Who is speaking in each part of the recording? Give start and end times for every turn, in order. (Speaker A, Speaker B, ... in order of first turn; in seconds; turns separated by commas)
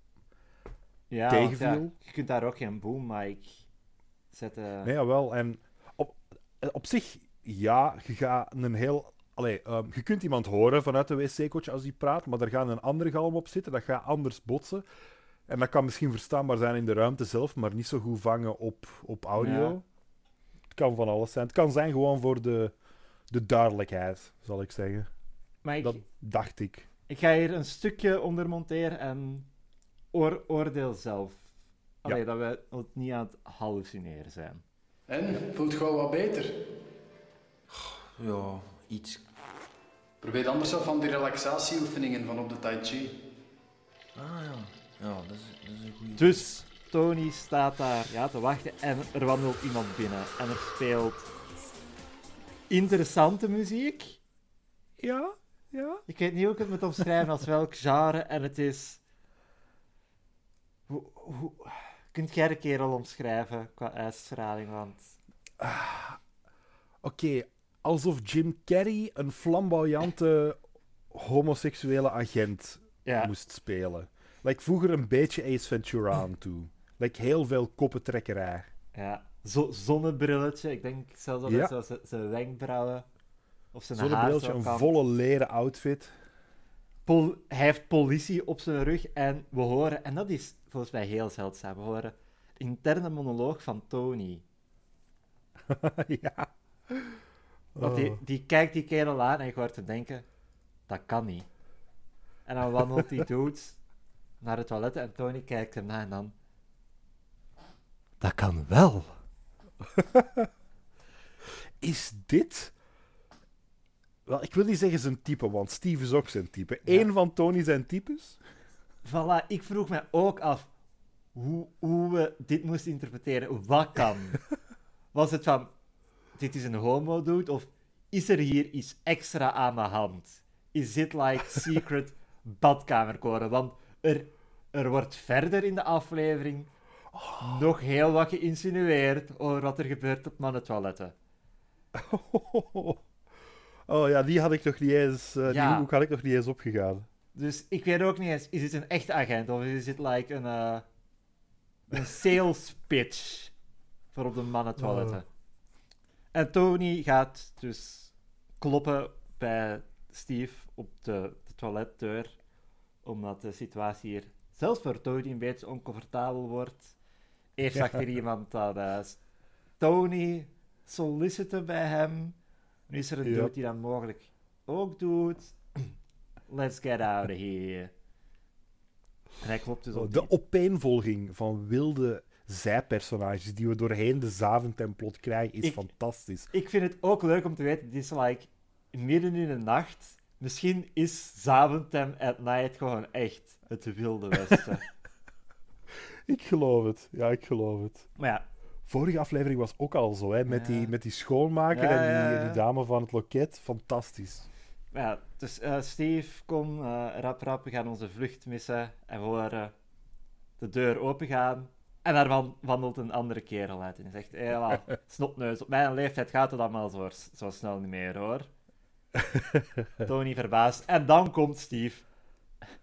Speaker A: 1.1-3.6, Speaker B: 1.3-1.9, Speaker A: 4.3-4.9, Speaker B: 4.8-14.8, Speaker B: 15.5-19.8, Speaker A: 19.4-19.8, Speaker B: 20.7-22.7, Speaker B: 23.3-25.1, Speaker A: 25.6-26.0, Speaker B: 25.8-26.9, Speaker A: 27.1-29.5, Speaker A: 30.1-31.5, Speaker A: 32.0-34.6, Speaker C: 35.1-36.6, Speaker D: 37.7-39.2, Speaker C: 40.2-43.1, Speaker D: 44.1-46.5, Speaker A: 46.2-51.3, Speaker A: 52.7-54.2, Speaker B: 55.0-56.0, Speaker A: 56.1-59.0, Speaker A: 60.9-65.1, Speaker B: 65.6-66.2, Speaker B: 67.0-78.7, Speaker A: 73.0-73.3, Speaker A: 78.9-83.0, Speaker B: 81.5-81.7, Speaker A: 83.7-84.9, Speaker B: 83.9-86.1, Speaker A: 87.0-94.4, Speaker B: 95.6-97.2, Speaker B: 97.7-98.2, Speaker A: 97.8-100.2, Speaker A: 100.9-101.5, Speaker A: 102.5-103.8, Speaker A: 104.4-106.3, Speaker A: 108.2-109.2, Speaker B: 110.0-110.5, Speaker B: 111.8-112.7, Speaker B: 114.2-118.4, Speaker A: 119.0-120.7, Speaker A: 121.3-124.4, Speaker A: 125.1-125.7, Speaker A: 126.4-136.7, Speaker B: 137.1-137.6, Speaker A: 137.4-141.1, Speaker B: 141.9-143.0, Speaker B: 143.9-147.1, Speaker A: 145.4-145.9, Speaker A: 147.3-150.8, Speaker A: 151.9-153.5, Speaker A: 154.1-155.2, Speaker A: 156.3-162.3, Speaker A: 163.0-166.9, Speaker A: 167.6-169.2, Speaker B: 167.7-168.0, Speaker A: 169.8-172.3, Speaker A: 172.9-175.9, Speaker B: 173.2-173.5, Speaker A: 176.5-177.9, Speaker A: 179.4-180.3, Speaker B: 179.9-186.5, Speaker A: 185.6-185.9, Speaker A: 186.5-194.8, Speaker B: 196.2-198.1, Speaker A: 198.2-198.4, Speaker B: 198.9-204.5, Speaker A: 200.5-200.9, Speaker A: 201.7-202.6, Speaker A: 204.9-209.7, Speaker A: 210.6-218.5, Speaker A: 220.0-222.0